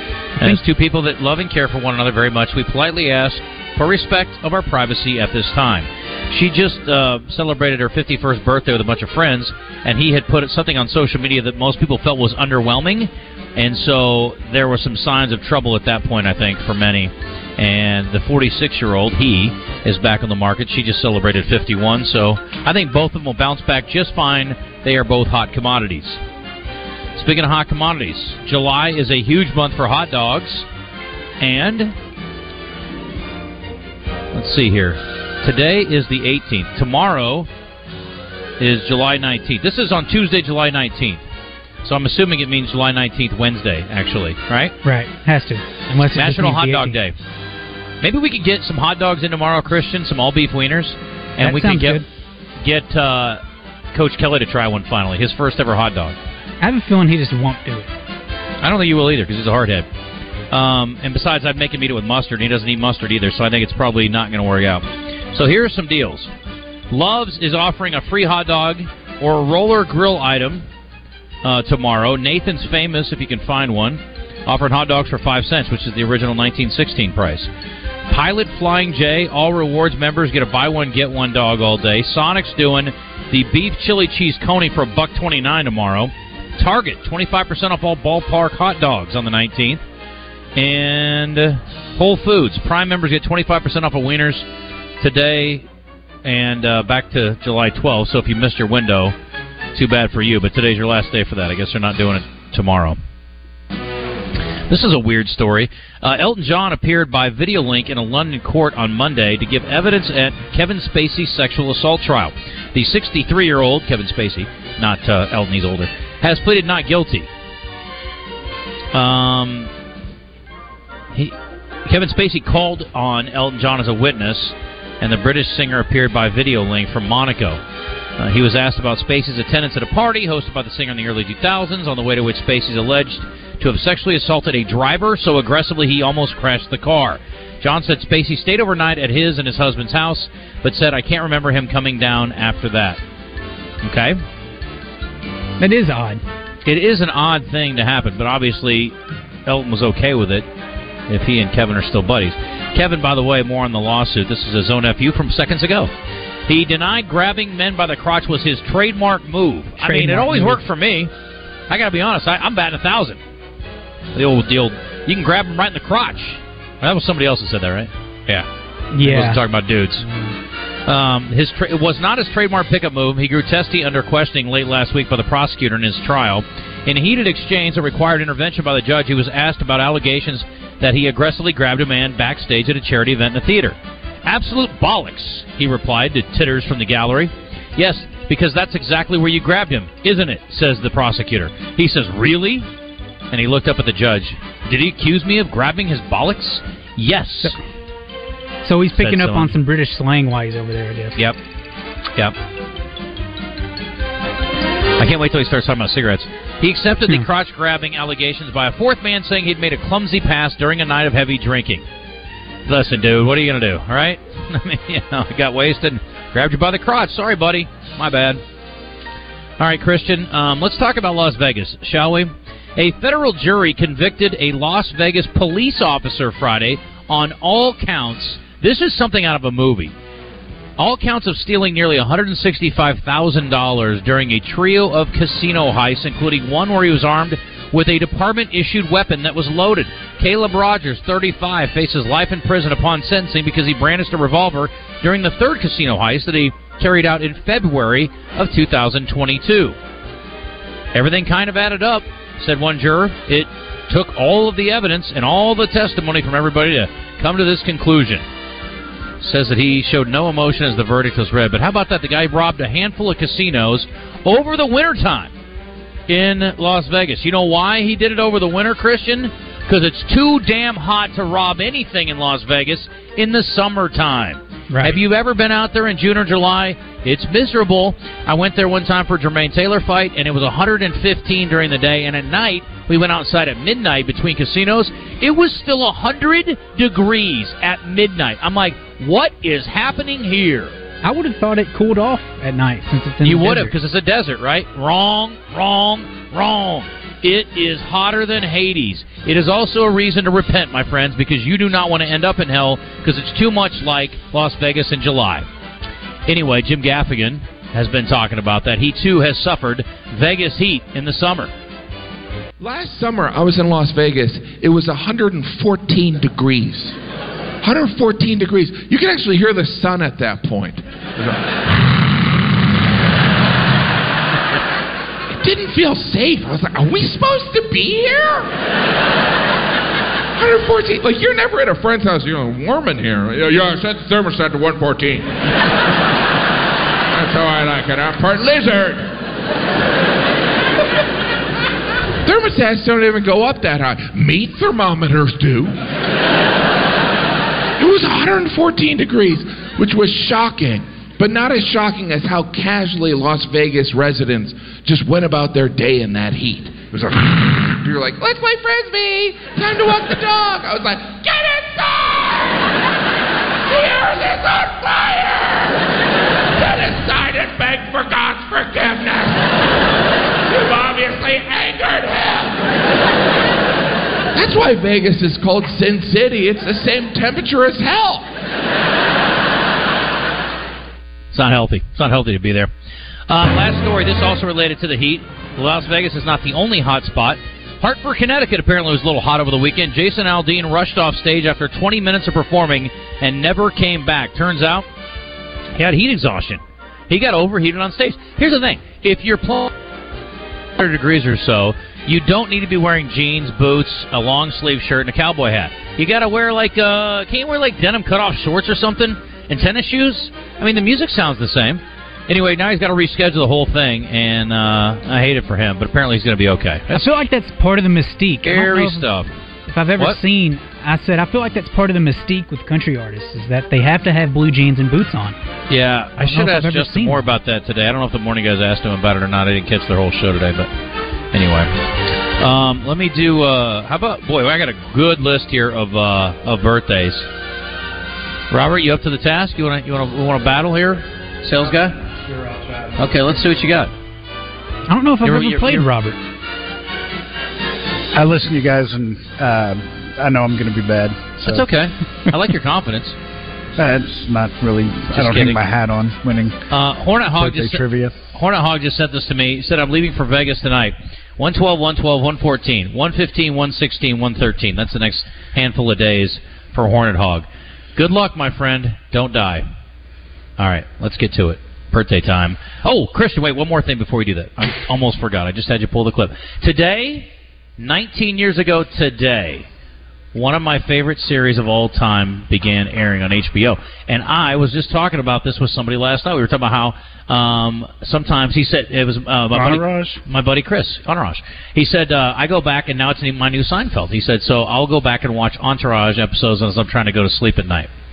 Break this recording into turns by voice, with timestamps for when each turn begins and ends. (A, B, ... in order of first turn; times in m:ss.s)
0:00.4-0:26.2 A
0:27.2-0:30.7 A
0:31.4-0:32.0 A
0:34.3-0:37.5 A
0:38.6-0:41.2 A
0:41.8-0:44.8 A
0:44.8-0:47.0 B
0:46.1-0:47.2 A
0:48.0-0:52.0 A
0:51.4-0:52.0 B
0:52.6-0:53.4 A
0:53.9-0:56.2 A
0:56.6-0:57.9 B
0:58.6-0:59.9 A
1:00.5-1:06.3 A
1:06.9-1:10.6 A
1:11.4-1:17.5 A
1:18.1-1:29.8 A
1:30.6-1:34.4 A
1:35.0-1:35.7 A
1:36.2-1:39.2 A
1:39.7-1:43.0 A
1:44.7-1:57.3 A
1:58.9-1:59.7 A
2:01.8-2:07.6 A
2:08.2-2:23.0 A
2:23.8-2:24.2 A
2:25.6-2:26.2 B
2:26.6-2:29.0 A
2:29.5-2:30.5 A
2:31.1-2:35.9 A
2:36.5-2:41.1 A
2:39.8-2:40.6 B
2:41.7-2:43.2 A
2:44.2-2:48.5 A
2:49.0-2:49.4 B
2:49.0-2:50.1 A
2:50.0-2:50.3 B
2:50.9-3:12.7 A
3:13.3-3:17.6 A
3:18.6-3:21.2 B
3:19.0-3:19.6 A
3:25.0-3:31.8 A
3:32.7-3:38.4 A
3:39.6-3:49.9 A
3:50.8-4:09.8 A
4:10.9-4:18.2 A
4:19.2-4:25.3 A
4:26.1-4:50.7 A
4:34.7-4:35.0 B
4:51.0-4:53.7 B
4:53.2-5:05.5 A
5:06.3-5:11.5 A
5:12.6-5:17.0 C
5:17.6-5:21.4 C
5:25.4-5:28.5 C
5:30.4-5:35.3 C
5:37.1-5:39.1 C
5:42.3-5:45.8 C
5:47.8-6:02.6 C
6:03.7-6:05.8 C
6:06.5-6:09.6 C
6:10.4-6:12.6 C
6:14.3-6:18.3 C
6:21.3-6:22.7 A
6:23.3-6:34.9 A
6:35.8-6:39.7 A
6:40.8-6:57.1 A
6:56.9-6:59.1 B
6:58.4-6:59.3 A
6:59.7-7:05.4 B
7:05.7-7:10.7 A
7:06.2-7:07.2 B
7:11.3-7:11.8 A
7:12.4-7:17.3 A
7:18.5-7:22.0 A
7:22.2-7:23.0 D
7:23.0-7:23.9 A
7:24.9-7:26.2 B
7:25.2-7:25.9 A
7:28.1-7:31.7 D
7:31.4-7:33.2 A
7:33.8-7:36.6 D
7:35.1-7:35.6 A
7:36.7-7:49.7 A
7:37.4-7:38.2 D
7:50.6-7:59.7 A
8:00.3-8:17.9 A
8:09.5-8:10.2 D